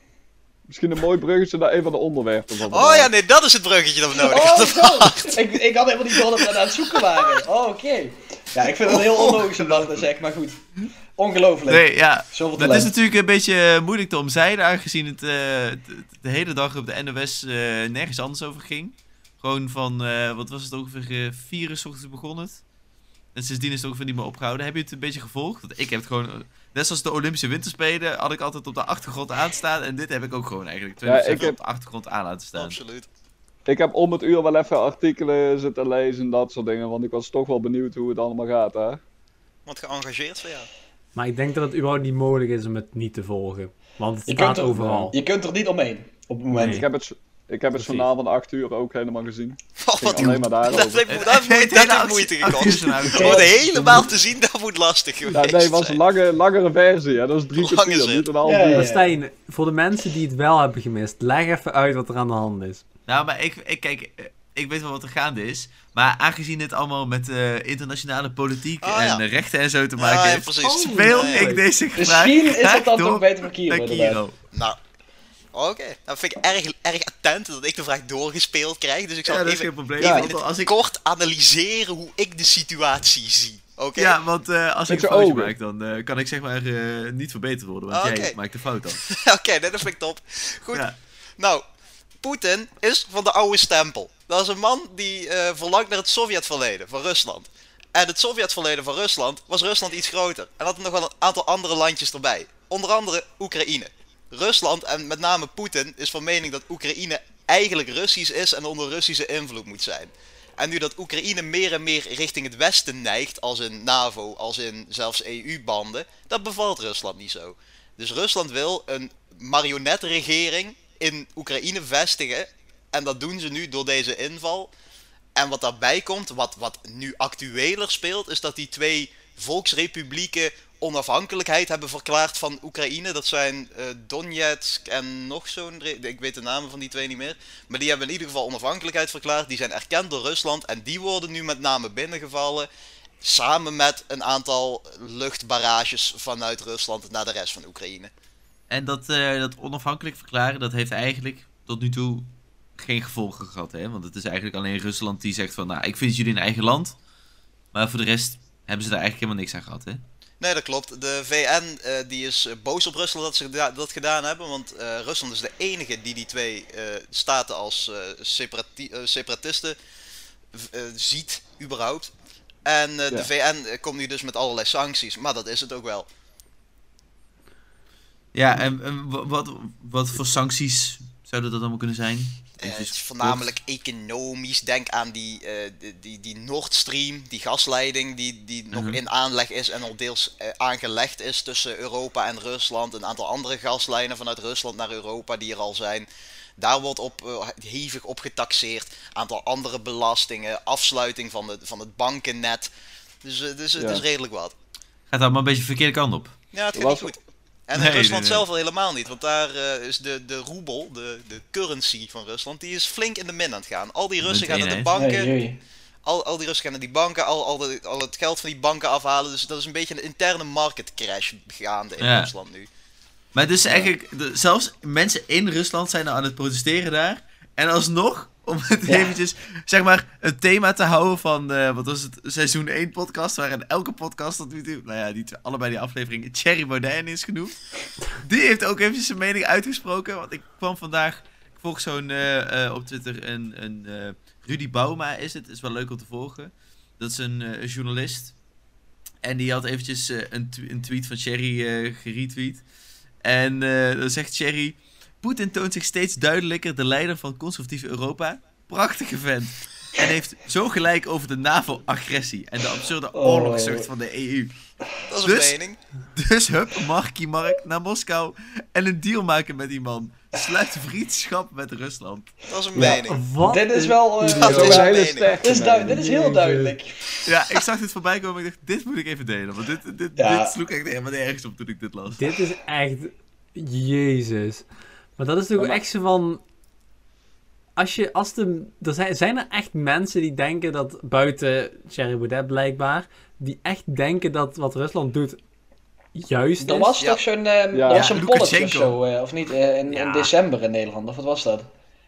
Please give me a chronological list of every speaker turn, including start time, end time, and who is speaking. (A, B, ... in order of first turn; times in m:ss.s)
0:00.7-0:03.1 A
0:02.6-0:05.4 B
0:04.1-0:10.6 C
0:09.0-0:10.1 D
0:11.2-0:12.9 C
0:11.7-0:22.6 D
0:23.3-0:32.8 D
0:31.0-0:31.6 A
0:32.6-0:33.1 B
0:33.7-0:39.0 A
0:39.6-0:40.7 B
0:41.2-0:45.1 E
0:44.3-0:46.8 C
0:46.5-0:46.8 E
0:46.6-0:51.1 A
0:47.8-0:48.1 E
0:49.8-0:56.0 B
0:50.1-0:50.4 C
0:51.1-0:53.6 D
0:53.1-0:54.1 C
0:55.3-0:59.2 A
0:57.6-0:58.3 B
0:58.4-0:59.0 C
0:58.7-1:02.8 E
1:03.1-1:14.4 D
1:08.8-1:09.2 B
1:10.0-1:11.5 B
1:10.6-1:11.6 E
1:12.0-1:14.2 C
1:14.5-1:14.8 B
1:15.5-1:24.2 B
1:19.2-1:20.7 D
1:20.0-1:20.3 A
1:24.0-1:29.0 D
1:24.9-1:25.5 A
1:27.9-1:28.3 B
1:28.9-1:30.8 B
1:31.4-1:31.6 B
1:32.2-2:04.7 B
2:05.4-2:22.7 B
2:23.2-2:28.1 B
2:28.7-2:37.0 D
2:37.7-2:40.0 D
2:40.4-2:49.8 B
2:50.5-2:52.1 B
2:52.6-2:56.1 B
2:58.3-3:03.5 D
3:02.6-3:22.7 B
3:08.7-3:09.0 D
3:23.2-3:24.5 B
3:23.8-3:24.0 A
3:25.1-3:26.4 D
3:26.5-3:35.3 B
3:26.7-3:27.1 A
3:27.7-3:28.4 D
3:34.2-3:34.9 D
3:34.9-3:35.6 C
3:36.0-3:42.7 B
3:42.0-3:42.3 D
3:43.3-3:57.6 D
3:48.9-3:49.1 C
3:58.1-4:08.3 D
4:09.2-4:12.6 D
4:13.2-4:24.5 D
4:23.1-4:23.9 C
4:25.0-4:25.8 B
4:25.2-4:25.6 D
4:26.1-4:32.4 D
4:32.5-4:33.2 B
4:32.7-4:37.3 C
4:32.8-4:34.8 E
4:34.3-4:36.0 A
4:34.4-4:35.3 B
4:35.8-4:36.8 E
4:37.2-4:42.3 D
4:40.2-4:40.6 C
4:42.2-4:44.6 E
4:45.2-4:46.4 E
4:47.8-4:55.4 E
4:56.1-4:57.0 E
4:56.6-5:01.7 C
4:57.7-4:58.2 A
4:57.9-4:59.0 D
4:59.9-5:00.3 E